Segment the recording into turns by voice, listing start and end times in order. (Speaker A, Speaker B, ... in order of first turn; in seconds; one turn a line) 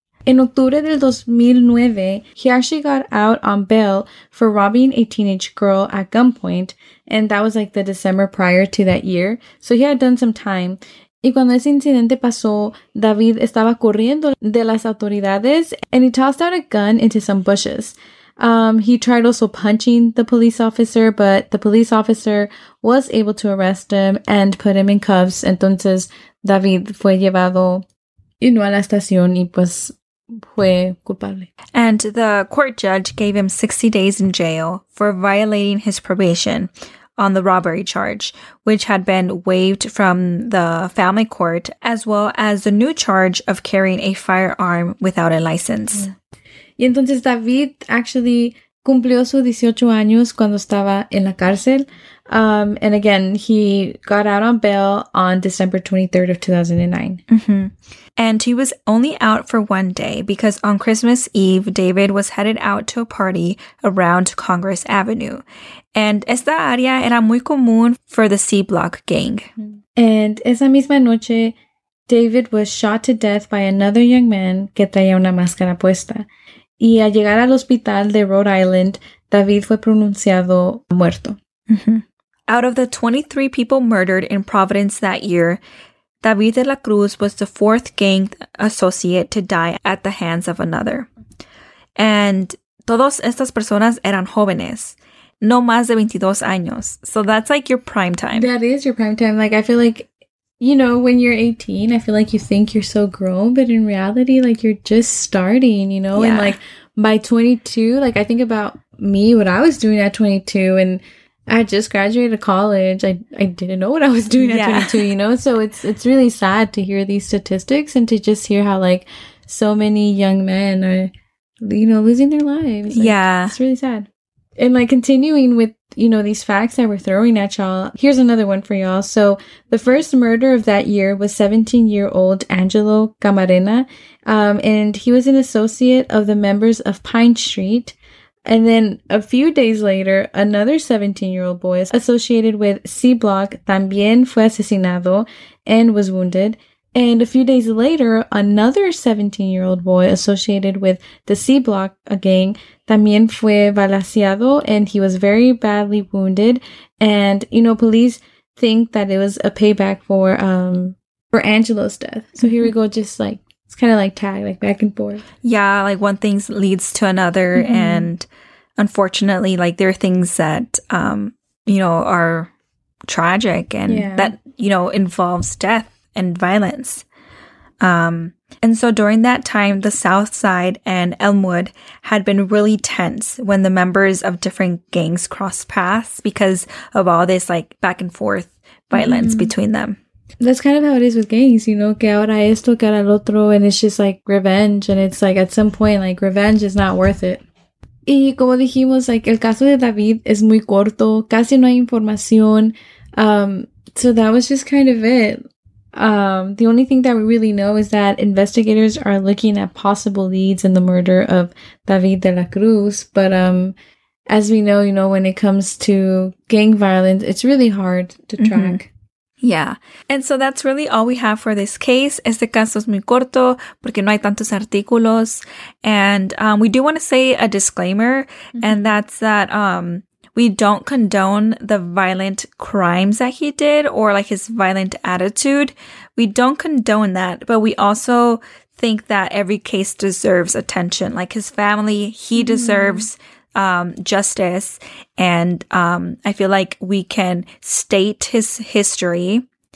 Speaker A: 0.3-27.9
Speaker A: 28.4-31.5
Speaker B: 31.7-46.1
Speaker A: 46.8-57.2
Speaker B: 57.3-65.4
Speaker B: 65.9-69.5
Speaker A: 70.0-71.5
Speaker A: 72.1-76.3
Speaker A: 76.8-81.4
Speaker B: 81.7-85.6
Speaker B: 86.2-91.1
Speaker B: 92.0-98.5
Speaker A: 98.3-100.1
Speaker A: 100.6-124.1
Speaker B: 106.1-106.5
Speaker B: 114.4-115.0
Speaker B: 122.9-123.5
Speaker A: 124.6-165.2
Speaker B: 162.4-162.7
Speaker B: 165.4-168.3
Speaker A: 167.6-168.1
Speaker B: 168.8-172.5
Speaker B: 173.1-177.1
Speaker A: 173.8-174.3
Speaker B: 177.8-190.0
Speaker A: 188.9-189.6
Speaker A: 190.4-197.4
Speaker A: 198.1-213.7
Speaker A: 214.3-218.9
Speaker B: 218.4-218.8
Speaker B: 219.4-249.4
Speaker A: 228.6-228.9
Speaker A: 242.3-243.1